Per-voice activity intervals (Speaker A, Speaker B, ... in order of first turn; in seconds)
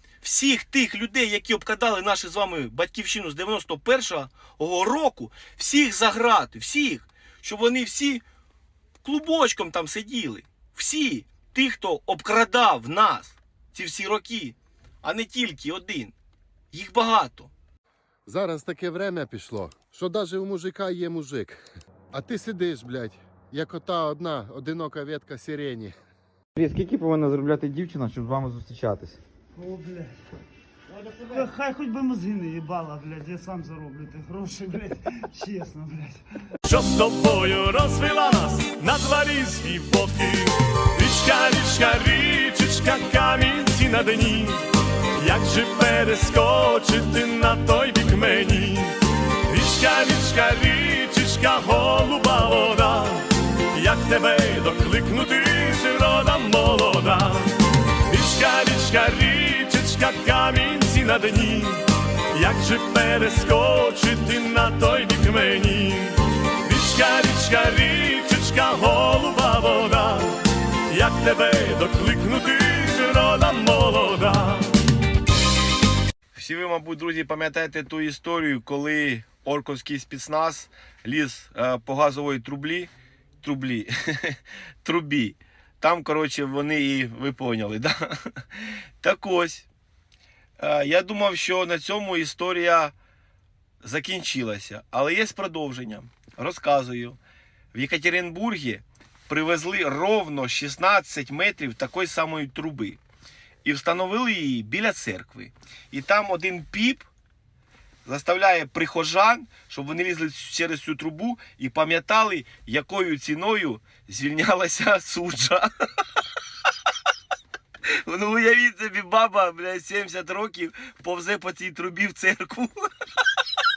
Speaker A: 0.2-8.2, 9.0-16.1, 16.7-17.5, 76.3-88.0, 89.0-89.7, 90.6-92.9, 93.8-97.2, 97.7-103.0, 103.6-107.1, 108.0-115.7, 118.1-122.9
Speaker B: 18.3-21.6, 22.1-25.9
Speaker C: 26.6-29.2
Speaker D: 29.6-30.2, 31.2-36.2
Speaker E: 36.6-44.6, 45.2-48.9, 49.5-57.5, 58.1-66.1, 66.7-70.3, 70.9-74.7